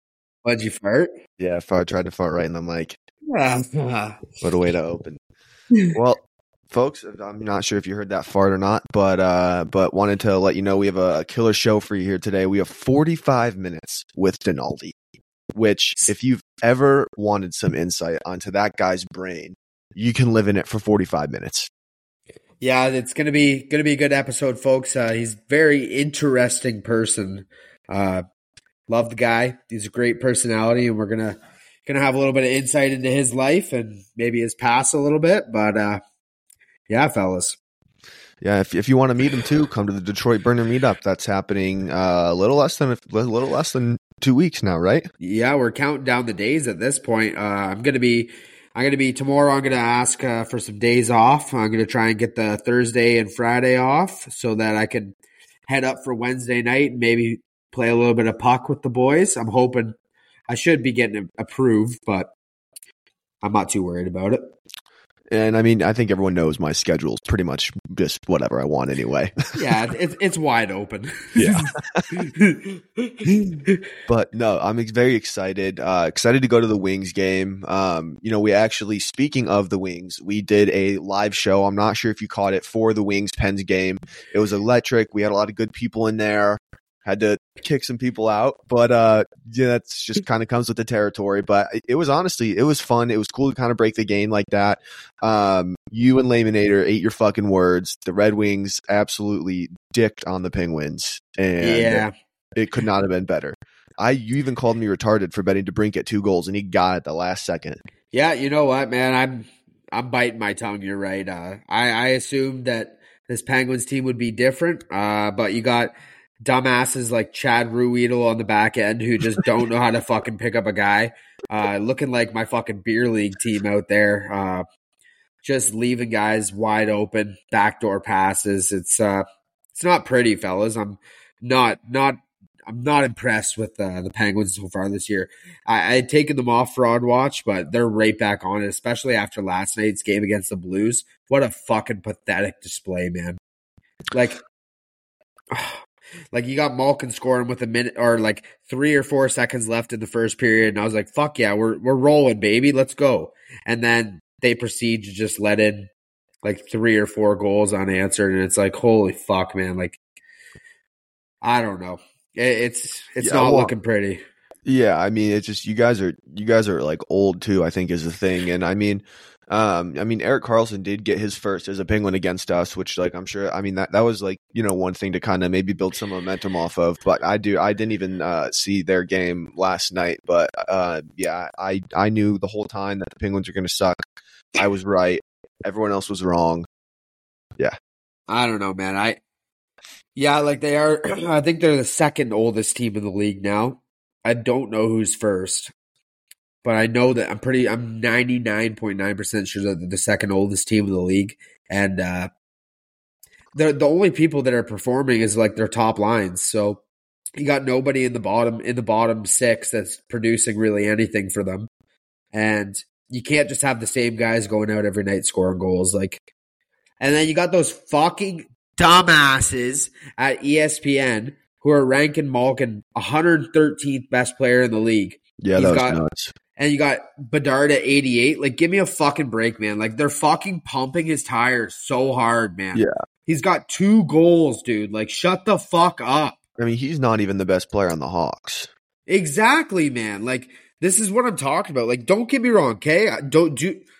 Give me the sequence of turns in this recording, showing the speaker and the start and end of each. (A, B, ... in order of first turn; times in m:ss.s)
0:00.4-0:01.1 A
0:01.4-0:03.0 B
0:03.3-0:04.2 A
0:04.4-0:05.2 B
0:05.9-0:15.0 B
0:15.5-0:21.7 B
0:22.6-0:28.2 A
0:28.9-0:36.0 A
0:36.9-0:37.6 A
0:38.4-0:45.1 B
0:45.2-0:55.2 A
0:55.7-0:59.9 A
1:00.5-1:02.3 A
1:03.4-1:04.5 A
1:05.3-1:09.5 B
1:09.5-1:13.8 A
1:11.4-1:12.2 B
1:14.1-1:47.8 B
1:41.6-1:42.1 A
1:48.1-2:04.6 A
2:05.4-2:23.4 A
2:24.1-2:24.4 A
2:25.5-2:25.8 A
2:26.3-2:35.9 A
2:36.4-2:40.0 A
2:41.4-2:44.2 A
2:43.2-2:43.7 B
2:44.6-3:04.0 B
3:04.6-3:06.6 B
3:08.3-3:09.2 A
3:10.2-3:15.7 A
3:16.6-3:22.3 A
3:23.5-3:26.8 A
3:27.4-3:31.7 A
3:32.3-3:36.2 A
3:37.0-3:46.0 A
3:45.4-3:46.3 B
3:46.6-3:56.4 A
3:56.6-3:58.7 B
3:59.1-4:03.8 A